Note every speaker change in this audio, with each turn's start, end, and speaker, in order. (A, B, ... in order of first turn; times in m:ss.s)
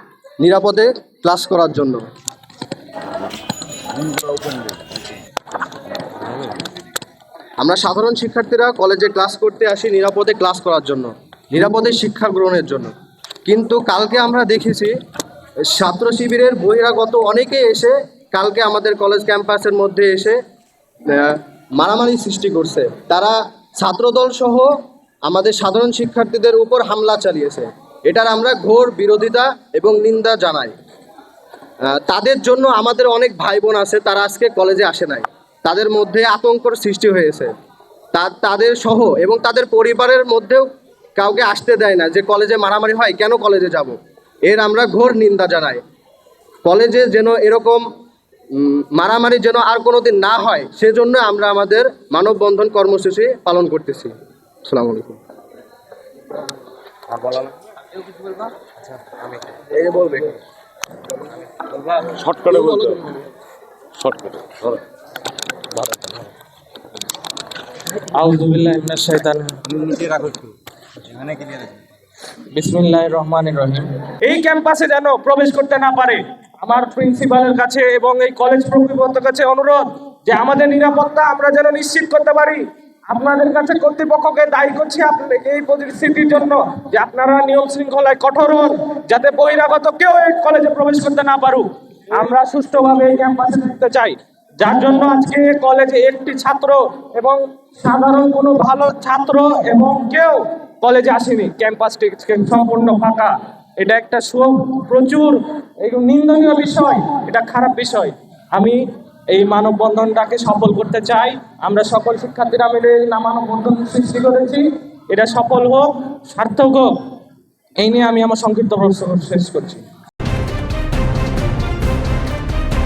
0:00.4-0:02.0 A
0:04.0-0:04.8 B
0:06.2-0:06.5 B
0:07.6-0:12.9 A
0:13.5-0:14.9 A
0:15.7-0:20.4 A
0:21.1-0:24.7 A
0:25.3-0:30.7 A
0:31.9-0:37.5 A
0:38.1-0:44.0 A
0:44.5-0:45.8 A
0:46.6-0:47.9 A
0:48.6-0:55.2 A
0:57.1-0:57.5 B
0:59.2-1:00.3 B
1:01.8-1:03.2 B
1:04.0-1:04.8 B
1:05.8-1:06.3 B
1:08.1-1:09.6 C
1:09.8-1:10.5 B
1:11.1-1:11.8 B
1:12.5-1:48.8 C
1:49.3-1:57.0 C
1:57.8-1:59.8 C